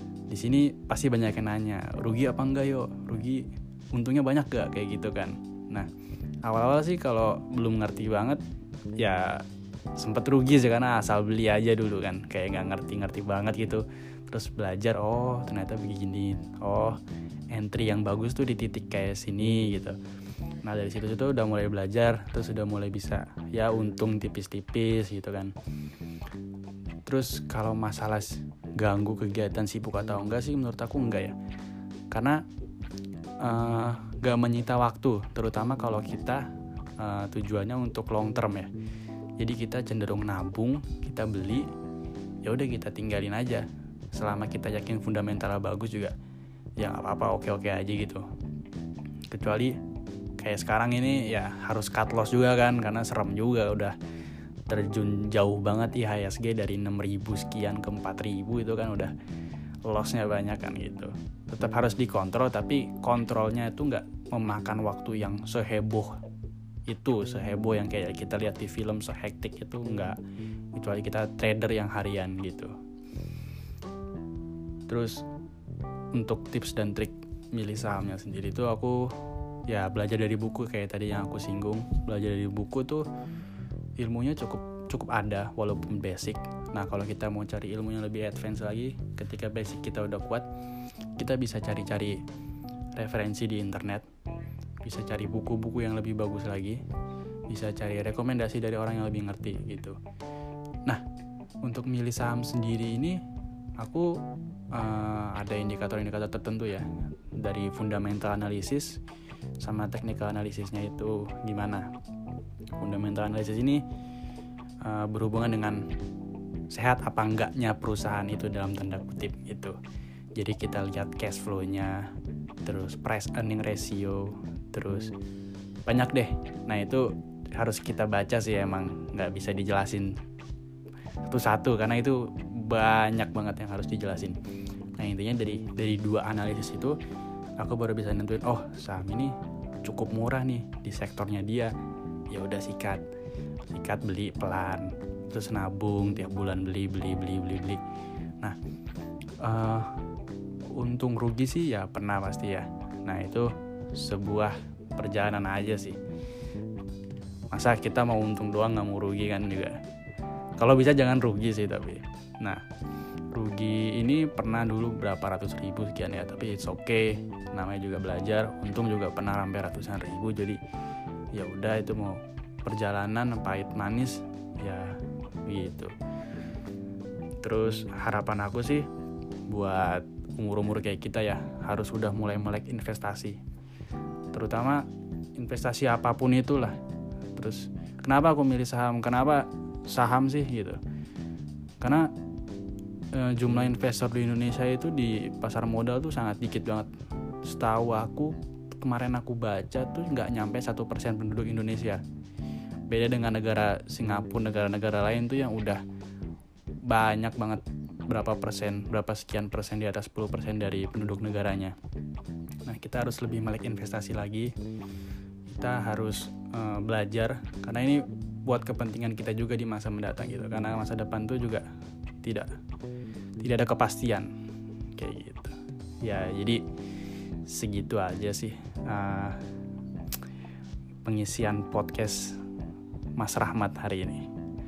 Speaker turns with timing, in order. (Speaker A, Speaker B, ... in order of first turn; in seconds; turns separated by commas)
Speaker A: 0.3-5.9, Speaker A: 6.4-8.4, Speaker A: 8.9-17.0, Speaker A: 17.5-20.0, Speaker A: 20.6-25.5, Speaker A: 27.1-31.4, Speaker A: 32.1-32.4, Speaker A: 33.4-38.7, Speaker A: 39.4-41.7, Speaker A: 42.4-46.1, Speaker A: 46.8-48.2, Speaker A: 49.3-49.8, Speaker A: 50.4-54.0, Speaker A: 54.7-59.1, Speaker A: 59.9-66.2, Speaker A: 66.8-70.2, Speaker A: 70.7-72.7, Speaker A: 74.9-75.2, Speaker A: 76.1-79.2, Speaker A: 79.7-83.0, Speaker A: 84.0-90.5, Speaker A: 91.2-92.2, Speaker A: 92.9-94.0, Speaker A: 94.8-96.8, Speaker A: 97.5-100.0, Speaker A: 101.6-103.2, Speaker A: 103.8-104.2, Speaker A: 104.7-109.0, Speaker A: 109.6-111.9, Speaker A: 112.7-113.8, Speaker A: 114.8-115.8, Speaker A: 116.7-119.8, Speaker A: 120.3-122.1, Speaker A: 122.6-125.1, Speaker A: 125.8-130.2, Speaker A: 131.2-134.4, Speaker A: 135.0-137.0, Speaker A: 137.6-141.7, Speaker A: 142.3-143.0, Speaker A: 143.7-147.8, Speaker A: 149.4-150.0, Speaker A: 150.7-156.0, Speaker A: 157.5-159.8, Speaker A: 160.6-162.6, Speaker A: 163.3-170.6, Speaker A: 171.3-175.9, Speaker A: 177.4-178.9, Speaker A: 179.5-183.4, Speaker A: 184.3-186.8, Speaker A: 187.3-190.8, Speaker A: 191.8-192.1, Speaker A: 193.1-196.9, Speaker A: 197.4-202.0, Speaker A: 202.9-205.8, Speaker A: 206.8-211.8, Speaker A: 212.6-214.5, Speaker A: 215.5-221.7, Speaker A: 222.2-222.6, Speaker A: 223.4-224.3, Speaker A: 224.9-226.6, Speaker A: 227.4-229.4, Speaker A: 231.0-232.4, Speaker A: 233.2-234.3